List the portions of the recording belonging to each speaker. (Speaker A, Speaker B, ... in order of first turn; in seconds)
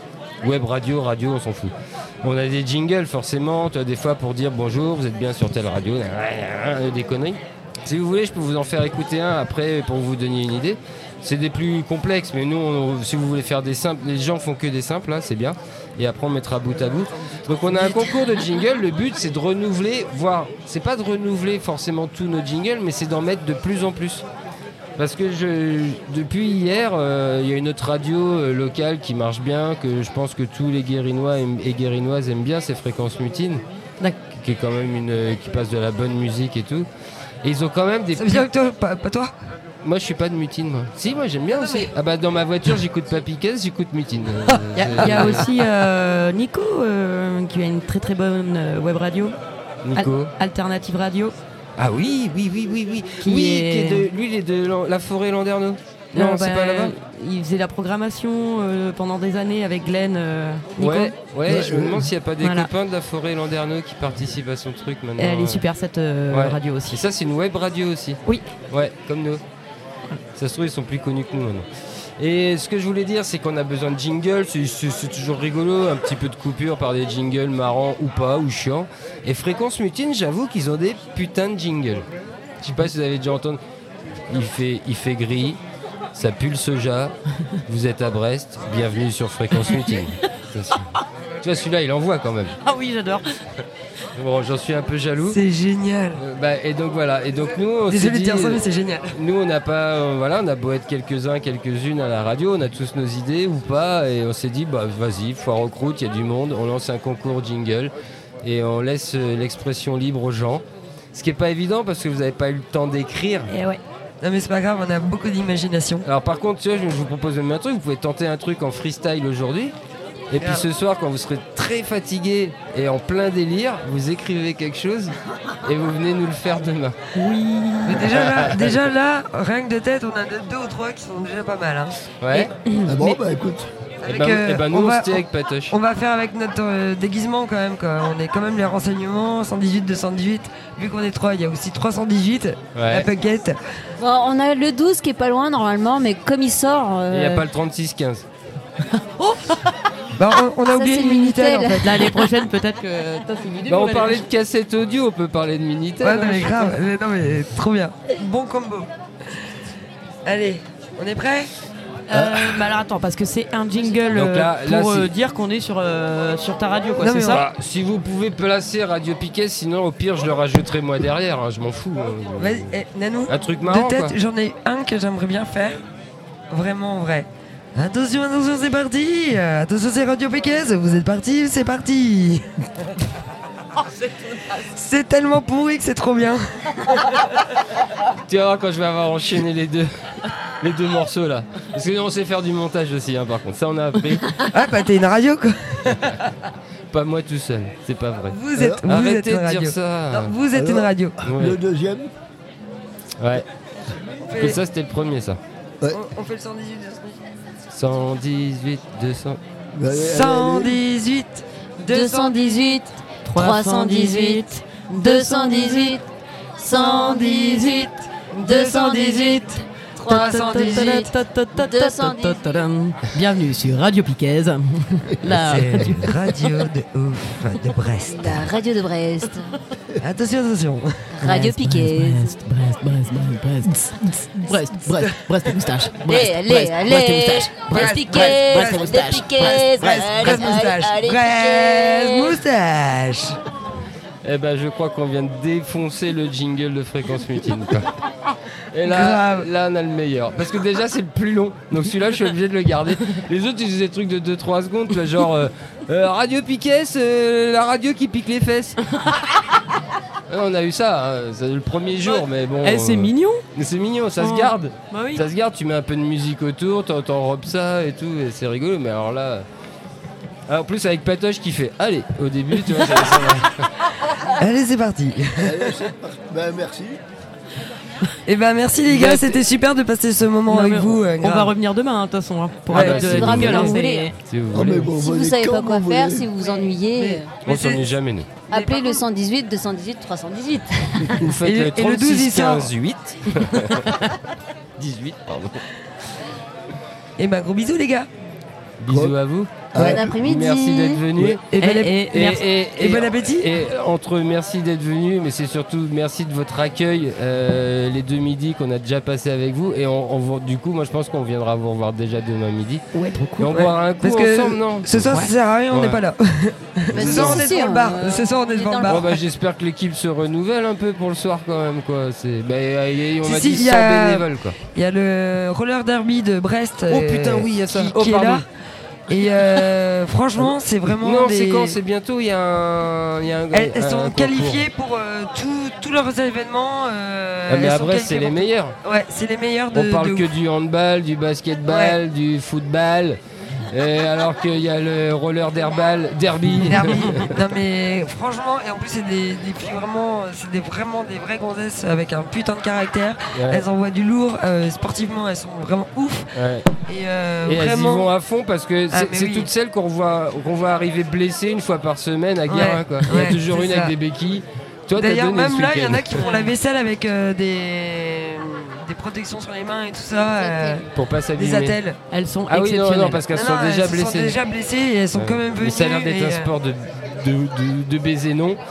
Speaker A: 0.4-24.2, 25.0-33.6, 34.4-36.9, 37.4-38.5, 39.8-45.5, 49.8-50.3, 51.8-56.9, 60.8-65.6, 66.3-69.4, 70.4-82.1, 82.6-83.6, 84.3-85.6, 86.2-92.6, 94.1-95.4, 96.2-113.5, 116.0-119.8, 120.3-127.0, 128.0-128.8, 132.2-132.5, 134.0-135.8, 142.8-143.1, 147.1-148.3, 153.7-156.8, 164.1-165.1, 167.3-174.2, 188.3-194.4, 196.9-200.3, 201.2-201.6, 203.2-203.4, 204.4-205.4, 207.7-209.4, 244.2-248.0, 248.7-258.8, 260.3-269.4, 270.5-273.7, 279.0-279.3, 282.7-284.9, 287.4-288.3, 291.0-294.0, 294.8-295.6, 298.8-301.4, 302.1-312.8, 313.4-316.0, 316.9-317.5, 318.8-324.6, 326.9-328.4, 330.4-334.7, 337.5-338.8, 339.7-347.3, 353.3-353.6, 356.3-356.7, 357.4-366.2, 370.9-371.8, 372.5-374.4, 375.1-378.6
Speaker B: 38.1-39.3, 41.6-41.9, 44.6-45.4, 95.3-96.2, 97.9-99.2, 114.2-116.1, 120.4-120.7, 127.8-132.0, 134.0-143.7, 150.2-152.1, 156.0-158.9, 160.3-161.5, 167.0-167.4, 172.4-175.8, 176.5-182.5, 184.6-187.2, 194.5-196.3, 198.3-201.2, 204.3-204.6, 205.9-207.2, 209.9-212.6, 216.7-219.5, 220.0-221.1, 225.3-228.5, 230.0-231.2, 237.7-243.4, 248.9-249.5, 274.2-275.7, 278.3-281.5, 282.7-283.8, 291.4-292.7, 297.2-298.1, 301.5-303.5, 313.4-319.2, 323.2-328.4, 329.1-331.8, 333.5-340.3, 341.7-342.0, 346.6-356.3, 356.9-358.1, 358.9-359.5, 362.5-363.9, 365.0-372.0, 373.3-376.5
Speaker C: 44.8-49.4, 50.0-51.4, 53.2-54.1, 56.1-61.1, 62.4-62.7, 65.2-67.0, 92.6-93.3, 113.5-113.8, 127.1-128.2, 132.3-133.2, 148.9-149.7, 151.8-154.2, 162.1-167.4, 213.3-214.8, 220.1-226.5, 231.2-240.5, 262.1-263.4, 264.2-265.2, 278.9-279.2, 280.5-284.2, 287.0-287.2, 288.5-289.0, 301.6-302.4, 312.9-313.5, 372.1-373.2
Speaker D: 61.5-62.1, 132.8-133.7, 162.1-162.5, 198.6-198.8, 200.5-202.1, 209.7-210.8, 275.4-277.0, 284.5-286.3, 298.9-299.2, 299.7-300.2
Speaker E: 144.0-147.5, 150.7-151.9, 211.9-221.0, 221.6-222.6, 228.1-229.6, 231.1-232.4, 236.0-242.4, 283.0-284.1, 285.0-287.6, 288.5-291.3, 299.8-301.0, 316.9-319.0